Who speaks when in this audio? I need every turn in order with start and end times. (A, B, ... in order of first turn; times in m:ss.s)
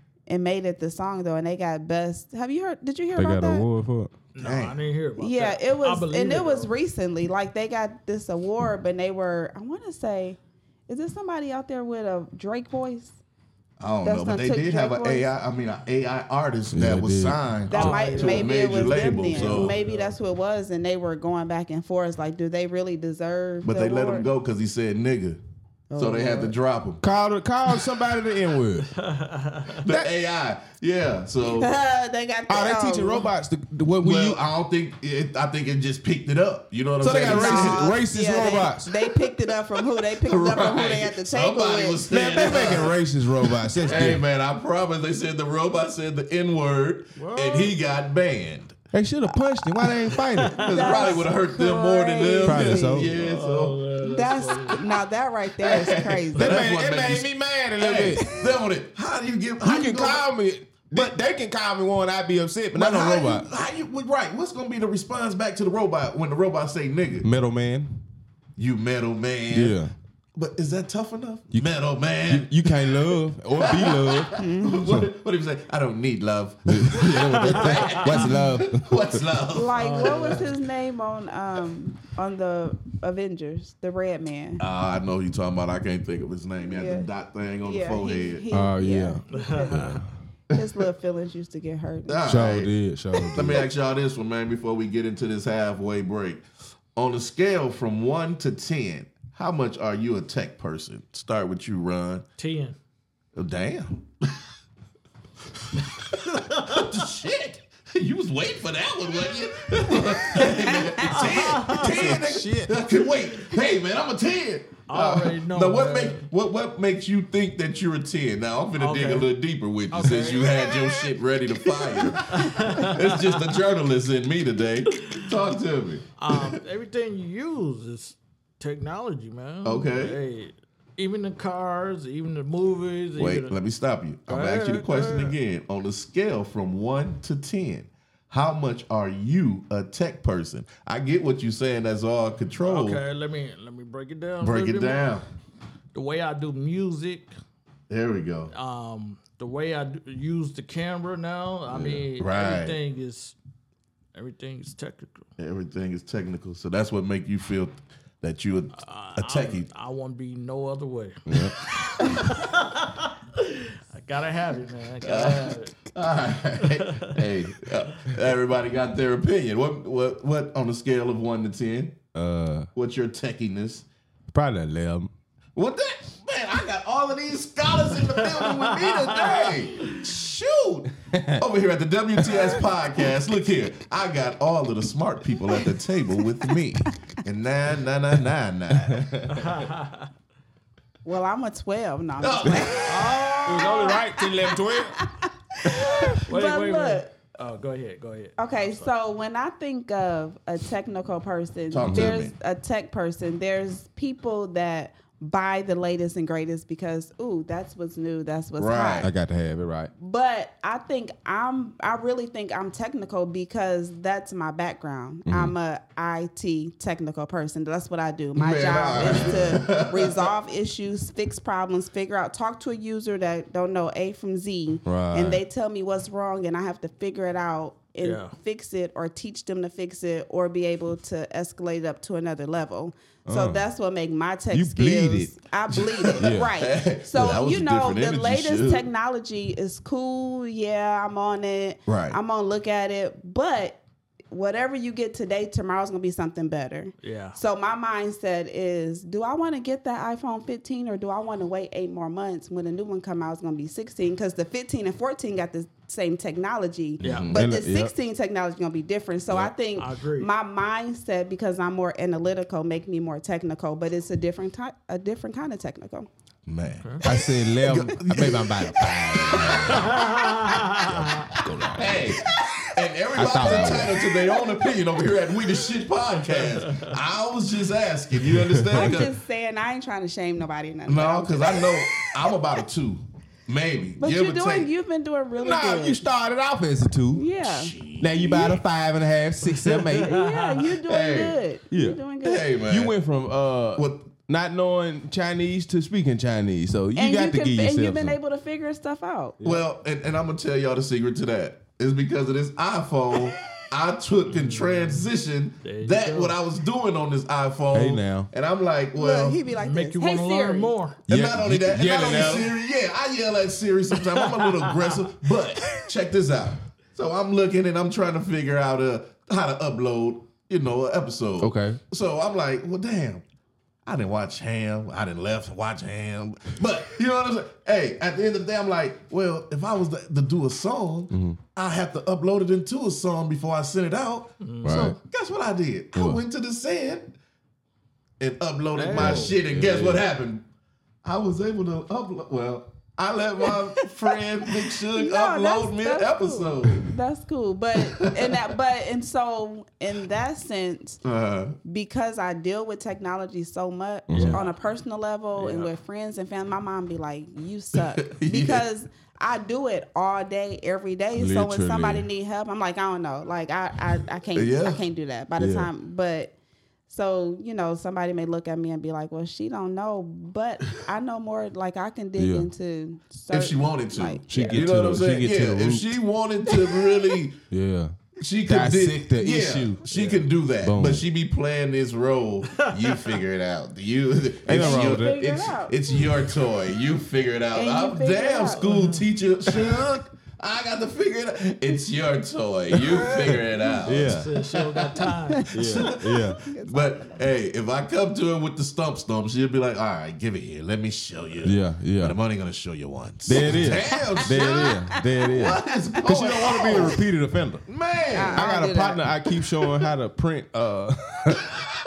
0:00.3-0:03.7 A
0:03.2-0:04.1 B
0:04.3-0:06.7 C
0:04.4-0:04.8 D
0:05.2-0:13.2 A
0:13.8-0:19.8 D
0:14.0-0:15.3 A
0:16.7-0:17.4 B
0:17.7-0:24.3 A
0:17.7-0:20.2 C
0:23.6-0:25.4 D
0:25.9-0:26.6 A
0:26.0-0:27.0 D
0:27.0-0:28.9 B
0:28.9-0:29.8 C
0:29.8-0:31.7 D
0:31.6-0:33.3 A
0:32.5-0:34.4 B
0:34.0-0:38.0 D
0:37.0-0:38.9 B
0:37.2-0:42.8 A
0:40.2-0:48.8 D
0:42.1-0:44.2 B
0:43.8-0:44.2 C
0:47.2-0:47.8 C
0:48.9-0:50.6 B
0:50.1-0:50.8 C
0:50.5-0:53.8 D
0:50.7-0:53.1 A
0:52.4-0:53.1 B
0:53.1-0:54.8 C
0:54.0-0:56.6 A
0:55.6-1:00.3 D
0:56.4-0:58.4 B
0:59.6-1:03.5 B
1:00.9-1:01.2 D
1:02.7-1:07.3 D
1:07.2-1:08.0 B
1:08.6-1:09.8 D
1:09.5-1:09.9 B
1:10.4-1:20.5 D
1:12.3-1:15.0 B
1:14.3-1:14.9 A
1:16.7-1:19.2 B
1:17.1-1:18.3 C
1:19.5-1:24.6 A
1:19.8-1:20.5 C
1:24.6-1:28.4 D
1:26.7-1:27.1 A
1:27.6-1:30.0 A
1:28.5-1:30.1 B
1:29.3-1:30.0 C
1:30.5-1:32.4 A
1:32.1-1:32.7 D
1:32.2-1:33.7 B
1:33.3-1:36.4 D
1:37.0-1:42.2 D
1:42.4-1:42.8 C
1:43.4-1:44.3 D
1:46.0-2:06.6 D
1:46.2-1:46.9 C
1:50.4-1:51.2 A
1:51.1-1:52.2 C
1:51.7-1:52.9 B
1:54.9-1:56.3 C
1:58.8-1:59.3 C
1:59.9-2:01.1 C
2:02.1-2:03.5 C
2:06.2-2:13.5 C
2:09.6-2:10.2 D
2:13.2-2:23.0 D
2:14.3-2:15.4 C
2:22.6-2:25.2 C
2:24.4-2:25.3 D
2:25.9-2:27.3 C
2:27.9-2:28.5 D
2:28.5-2:33.4 C
2:31.7-2:32.0 B
2:32.2-2:32.8 D
2:34.2-2:35.3 C
2:35.4-2:39.7 D
2:38.8-2:45.8 C
2:41.3-2:41.6 B
2:45.0-2:52.0 D
2:46.6-2:47.2 C
2:52.1-2:52.7 B
2:52.8-2:53.9 D
2:54.3-2:55.1 B
2:55.6-3:09.7 D
2:58.2-3:00.0 C
3:01.1-3:01.4 B
3:08.8-3:09.1 B
3:09.3-3:10.1 C
3:11.0-3:17.1 A
3:12.2-3:13.2 D
3:12.8-3:14.0 C
3:13.4-3:15.1 B
3:16.3-3:18.9 C
3:18.4-3:29.1 A
3:21.7-3:22.3 D
3:21.8-3:22.1 B
3:28.6-3:29.1 D
3:29.0-3:29.9 B
3:30.0-4:26.1 A
3:35.3-3:35.5 B
3:38.4-3:40.3 D
3:39.0-3:39.3 B
3:44.9-3:45.4 B
3:48.0-3:48.4 C
3:53.3-3:53.6 B
3:54.5-3:55.3 B
3:55.7-3:58.9 D
3:56.2-3:56.5 B
4:01.9-4:02.2 D
4:07.0-4:07.4 C
4:17.0-4:17.4 D
4:17.0-4:17.3 C
4:17.3-4:17.9 B
4:19.7-4:20.3 C
4:26.5-4:30.1 D
4:27.0-4:30.1 B
4:29.7-4:31.3 C
4:30.8-4:32.2 B
4:31.7-4:39.1 D
4:32.1-4:32.7 A
4:33.1-4:34.0 B
4:33.4-4:34.8 A
4:36.6-4:36.9 C
4:38.3-4:39.0 B
4:38.7-4:42.1 A
4:40.9-4:44.7 D
4:44.0-4:46.0 A
4:45.4-4:47.2 B
4:47.1-4:47.8 A
4:47.4-4:48.6 D
4:48.0-4:50.2 B
4:49.6-4:50.4 C
4:50.0-4:52.5 A
4:50.9-4:51.4 D
4:51.7-4:52.0 B
4:52.2-4:53.0 D
4:52.6-4:58.2 B
4:53.8-4:54.1 D
4:57.0-4:59.3 A
4:59.4-5:09.4 D
5:04.3-5:05.0 C
5:05.6-5:06.4 C
5:07.7-5:08.3 B
5:09.0-5:10.7 A
5:09.6-5:11.0 C
5:11.1-5:12.5 B
5:11.1-5:23.2 D
5:14.2-5:15.0 C
5:21.4-5:21.8 B
5:23.9-5:37.2 D
5:31.1-5:31.4 B
5:34.4-5:34.9 C
5:34.6-5:35.0 B
5:35.9-5:36.2 B
5:38.2-5:40.5 D
5:38.7-5:39.4 C
5:38.9-5:40.0 B
5:41.0-5:46.9 D
5:44.9-5:51.0 A
5:47.8-5:48.5 D
5:51.0-5:51.6 D
5:51.6-6:06.4 A
5:54.1-5:54.4 B
5:54.1-5:54.6 C
5:55.4-5:55.7 C
5:57.8-5:58.7 D
6:01.2-6:02.1 B
6:04.3-6:04.8 D
6:05.4-6:05.7 B
6:06.9-6:14.3 A
6:12.2-6:12.5 B
6:13.3-6:17.4 D
6:14.3-6:15.9 B
6:16.5-6:16.9 A
6:17.5-6:19.8 B
6:18.2-6:44.8 D
6:19.9-6:20.2 C
6:20.6-6:21.0 B
6:22.5-6:23.2 C
6:24.5-6:25.2 B
6:24.6-6:26.0 A
6:27.5-6:28.6 A
6:28.5-6:29.0 C
6:33.1-6:34.3 B
6:33.7-6:35.7 C
6:35.5-6:36.4 B
6:36.4-6:37.2 A
6:41.4-6:42.2 B
6:43.3-6:47.7 B
6:43.6-6:46.9 A
6:45.3-6:47.0 D
6:47.7-6:48.5 D
6:48.1-6:49.2 A
6:48.3-6:51.5 B